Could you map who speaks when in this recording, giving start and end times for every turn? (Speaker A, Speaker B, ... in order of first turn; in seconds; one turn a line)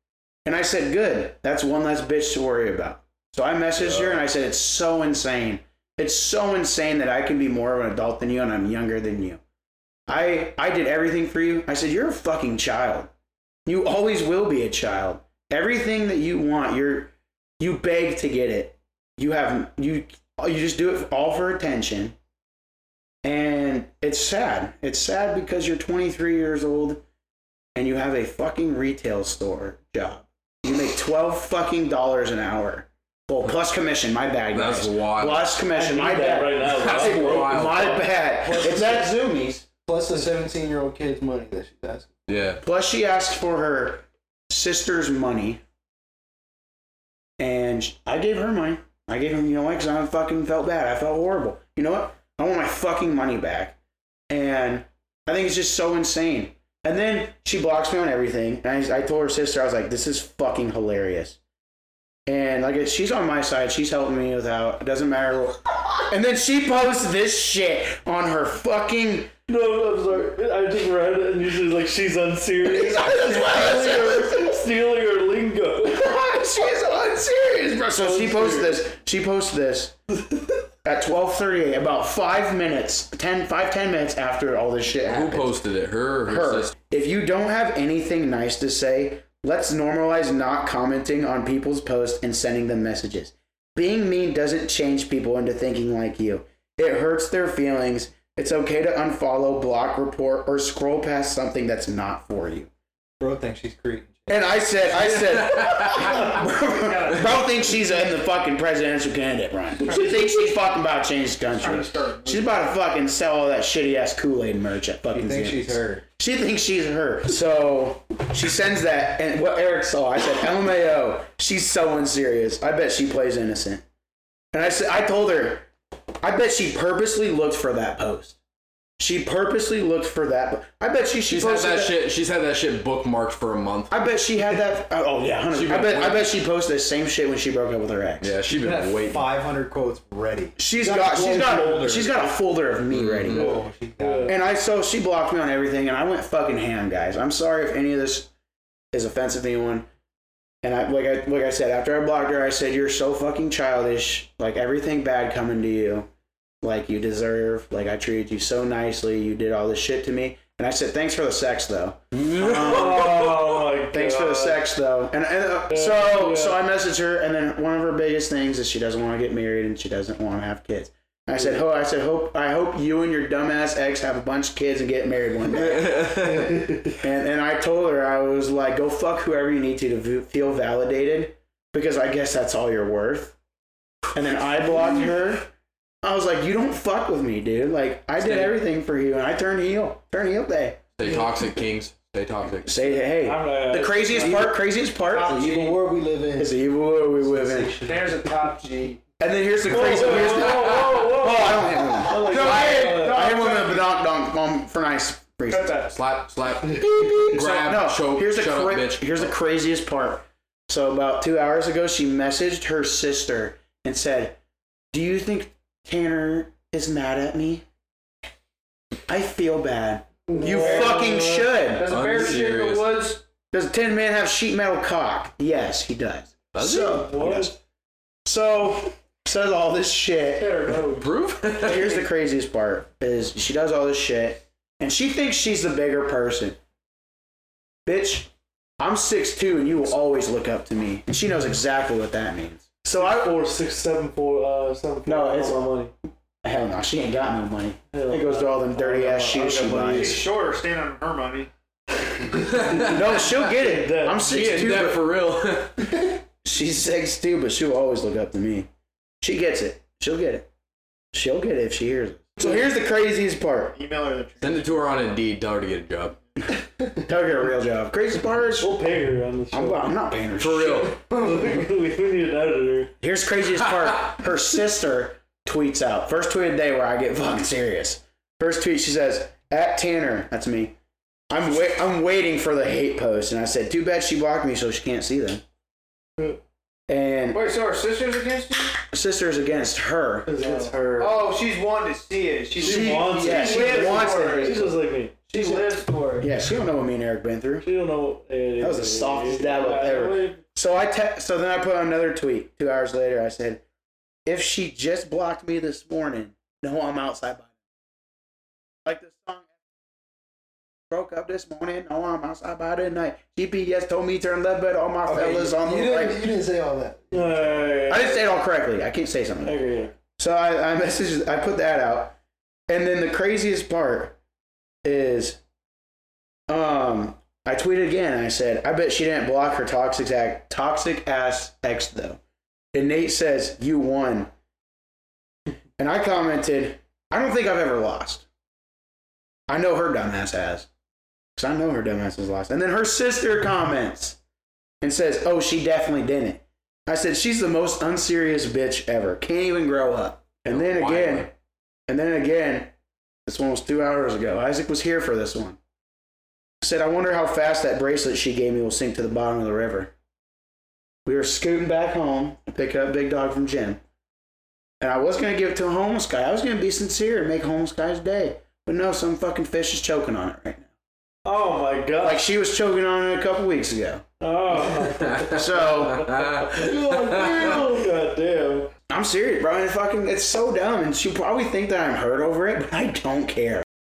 Speaker A: 0.4-9.4
Speaker A: 10.1-13.1
Speaker A: 13.7-22.1
Speaker A: 23.2-27.0
Speaker A: 27.7-39.6
Speaker B: 34.5-35.5
Speaker C: 35.6-39.1
Speaker B: 36.7-37.9
Speaker D: 39.9-42.1
Speaker B: 42.3-42.6
Speaker A: 42.6-45.6
Speaker A: 47.4-53.7
Speaker A: 54.3-61.4
Speaker A: 62.2-69.3
Speaker C: 69.5-76.1
Speaker A: 72.6-74.5
Speaker A: 75.9-80.0
Speaker C: 77.9-78.8
Speaker A: 80.8-85.6
Speaker B: 85.0-86.7
Speaker A: 86.2-102.7
Speaker D: 103.2-106.3
Speaker A: 104.3-123.8
Speaker E: 105.9-108.0
Speaker E: 109.9-110.3
Speaker E: 111.6-112.6
Speaker D: 115.1-116.0
Speaker A: 124.5-125.7
Speaker A: 126.2-128.4
Speaker A: 129.0-132.0
Speaker B: 131.3-134.0
Speaker A: 133.9-138.3
Speaker B: 135.5-136.3
Speaker B: 138.2-139.2
Speaker D: 138.5-142.3
Speaker A: 140.6-143.5
Speaker B: 142.9-143.3
Speaker D: 143.3-144.3
Speaker C: 143.3-144.3
Speaker A: 144.2-148.3
Speaker A: 148.9-149.9
Speaker A: 150.6-156.1
Speaker A: 156.6-183.3
Speaker B: 162.1-163.1
Speaker C: 162.4-164.6
Speaker C: 165.7-166.6
Speaker C: 171.3-171.6
Speaker C: 176.2-176.9
Speaker A: 184.1-185.5
Speaker A: 186.0-190.8
Speaker B: 188.2-188.6
Speaker B: 191.0-192.7
Speaker A: 192.7-195.7
Speaker C: 192.9-194.5
Speaker D: 194.1-196.6
Speaker E: 195.1-195.7
Speaker A: 196.4-197.7
Speaker D: 197.1-198.3
Speaker E: 197.8-199.0
Speaker A: 199.2-205.8
Speaker C: 199.7-203.4
Speaker D: 201.8-202.1
Speaker E: 202.1-203.8
Speaker E: 205.5-205.9
Speaker B: 205.9-209.3
Speaker A: 206.8-214.4
Speaker A: 214.9-217.6
Speaker A: 219.1-221.9
Speaker E: 220.3-223.2
Speaker C: 220.3-221.6
Speaker B: 221.9-222.9
Speaker A: 223.5-227.6
Speaker B: 226.5-227.2
Speaker C: 226.9-227.5
Speaker A: 228.2-230.6
Speaker E: 230.3-232.0
Speaker B: 231.0-232.0
Speaker A: 231.6-236.6
Speaker A: 237.8-243.3
Speaker C: 242.8-245.9
Speaker A: 245.0-245.6
Speaker A: 246.4-250.2
Speaker C: 247.9-250.3
Speaker E: 249.9-251.5
Speaker B: 252.5-253.2
Speaker A: 252.8-255.1
Speaker C: 252.8-254.3
Speaker B: 254.2-255.9
Speaker A: 256.4-258.7
Speaker A: 259.2-260.4
Speaker A: 261.1-263.8
Speaker E: 263.7-264.9
Speaker B: 264.4-266.2
Speaker A: 267.0-268.8
Speaker C: 268.6-269.9
Speaker A: 269.5-270.9
Speaker B: 270.4-271.0
Speaker C: 271.1-272.9
Speaker D: 271.1-271.4
Speaker A: 273.0-280.8
Speaker A: 281.3-285.4
Speaker A: 286.9-287.4
Speaker E: 287.3-288.8
Speaker A: 288.9-290.3
Speaker C: 290.2-291.2
Speaker E: 290.3-296.3
Speaker C: 292.6-295.2
Speaker A: 292.6-294.6
Speaker A: 295.3-297.7
Speaker C: 297.6-300.4
Speaker A: 298.6-303.6
Speaker A: 304.2-307.5
Speaker A: 308.8-309.5
Speaker A: 310.9-316.2
Speaker D: 315.0-317.8
Speaker C: 317.1-318.2
Speaker A: 317.9-319.6
Speaker C: 319.4-319.9
Speaker A: 320.2-322.1
Speaker A: 322.7-324.1
Speaker A: 324.8-325.4
Speaker A: 326.5-332.2
Speaker A: 332.7-334.3
Speaker A: 335.8-338.2
Speaker A: 339.5-340.7
Speaker A: 341.4-344.2
Speaker A: 344.8-351.3
Speaker B: 350.4-351.3
Speaker A: 351.9-352.7
Speaker A: 353.2-355.6
Speaker A: 356.6-359.9
Speaker A: 361.0-363.8
Speaker A: 364.8-370.7
Speaker C: 371.2-372.3
Speaker A: 372.0-374.0
Speaker C: 374.2-378.7
Speaker B: 374.8-377.7
Speaker A: 375.3-376.1
Speaker A: 377.0-377.8
Speaker A: 378.9-383.6